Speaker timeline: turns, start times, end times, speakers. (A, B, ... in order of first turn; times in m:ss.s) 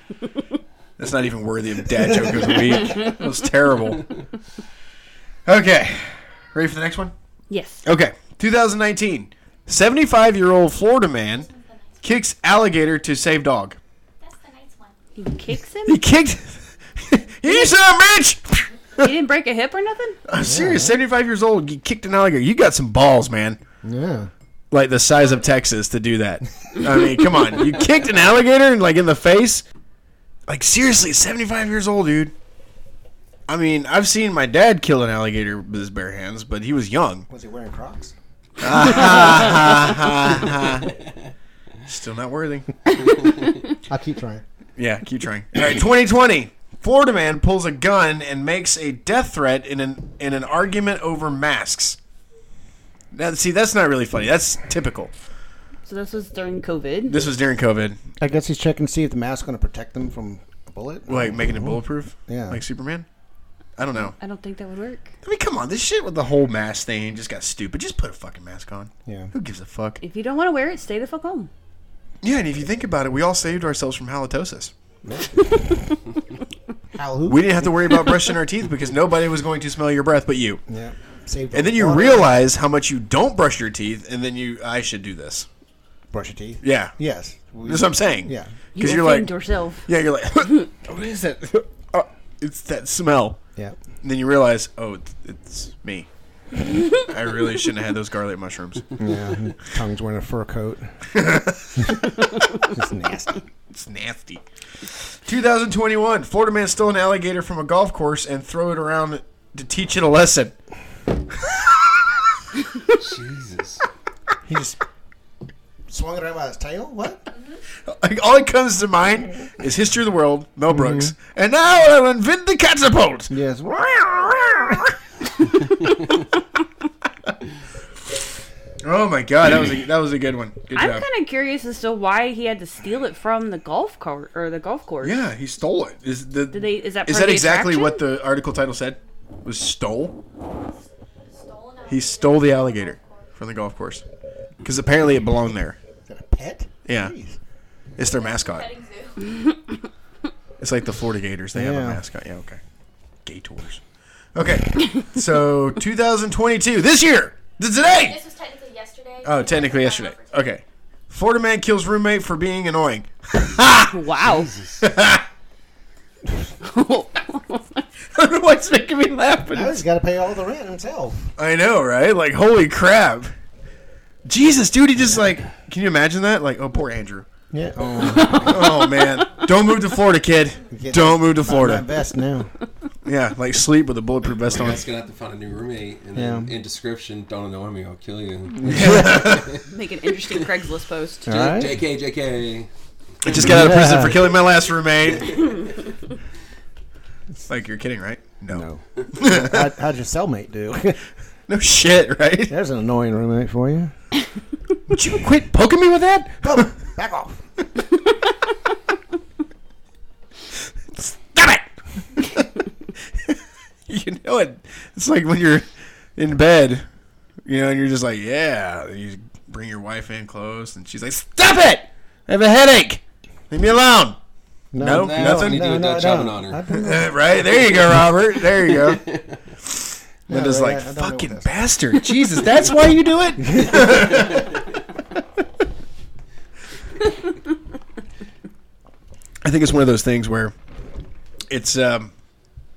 0:01.0-0:04.1 A
0:05.5-0:07.1 A
0:07.5-0:07.8 B
0:07.8-0:11.5 A
0:11.4-0:12.1 C
0:12.0-0:13.8 A
0:14.2-0:15.0 C
0:15.2-0:16.0 B
0:15.8-0:19.1 A
0:19.0-0:20.2 B
0:20.3-0:23.6 A
0:20.4-0:21.0 D
0:23.8-0:24.3 D
0:24.7-0:29.6 A
0:30.5-0:32.3 A
0:33.5-0:37.3 A
0:37.3-0:38.1 D
0:38.6-0:41.0 A
0:41.8-0:42.7 A
0:43.8-0:44.4 D
0:44.8-0:52.0 A
0:53.1-0:55.1 A
0:55.8-0:57.2 B
0:57.1-0:58.0 A
0:58.2-1:02.6 D
1:01.1-1:03.1 A
1:03.8-1:04.2 A
1:04.2-1:05.1 B
1:05.2-1:10.0 A
1:09.1-1:09.3 D
1:10.0-1:11.5 B
1:12.2-1:14.7 A
1:15.0-1:16.0 D
1:16.9-1:17.6 D
1:17.3-1:20.6 A
1:20.7-1:22.4 D
1:21.5-1:25.5 A
1:26.1-1:28.5 D
1:26.6-1:27.0 A
1:27.6-1:29.3 A
1:28.8-1:29.9 B
1:29.8-1:33.4 A
1:34.0-1:36.1 A
1:36.9-1:38.9 A
1:39.0-1:41.1 D
1:41.1-1:41.9 A
1:41.8-1:43.4 D
1:43.7-1:44.4 A
1:45.1-1:50.6 A
1:51.3-1:52.3 A
1:52.9-1:53.8 E
1:54.4-1:54.8 D
1:55.9-1:57.2 D
1:57.8-2:05.0 A
2:00.7-2:01.1 D
2:03.3-2:04.0 D
2:08.8-2:11.1 A
2:10.7-2:15.2 B
2:15.0-2:20.2 A
2:16.5-2:18.0 B
2:21.3-2:23.3 C
2:21.9-2:24.0 A
2:24.6-2:25.8 A
2:26.1-2:27.4 D
2:26.9-2:27.1 A
2:28.0-2:28.7 A
2:28.0-2:29.4 C
2:30.6-2:32.6 A
2:31.5-2:32.0 D
2:33.2-2:33.8 A
2:34.4-2:38.2 A
2:37.9-2:40.4 C
2:39.2-2:44.0 A
2:43.9-2:44.5 B
2:44.2-2:44.9 E
2:44.8-2:45.3 A
2:46.6-2:47.8 B
2:48.1-2:49.8 A
2:49.5-2:51.3 D
2:51.4-2:53.3 A
2:54.3-2:57.3 A
2:57.5-2:58.6 D
2:58.2-3:01.9 A
2:58.5-2:59.1 B
3:00.7-3:02.5 D
3:03.0-3:04.8 A
3:04.4-3:09.7 E
3:06.2-3:06.5 D
3:08.6-3:09.4 D
3:08.6-3:09.6 A
3:09.6-3:11.4 B
3:11.3-3:11.8 D
3:11.3-3:12.7 E
3:13.2-3:15.5 A
3:13.3-3:14.4 D
3:15.2-3:15.6 E
3:17.5-3:19.7 A
3:18.5-3:21.0 D
3:21.5-3:22.5 A
3:22.5-3:23.9 D
3:24.9-3:26.7 A
3:26.4-3:27.4 D
3:30.9-3:32.5 A
3:33.1-3:36.8 A
3:37.5-3:44.2 A
3:44.7-3:47.5 D
3:44.8-3:45.7 A
3:44.8-3:46.6 E
3:46.7-3:49.1 A
3:47.6-3:49.4 E
3:49.6-3:54.5 A
3:50.3-3:51.6 D
3:53.4-3:54.4 D
3:59.4-4:00.5 A
4:01.5-4:02.1 A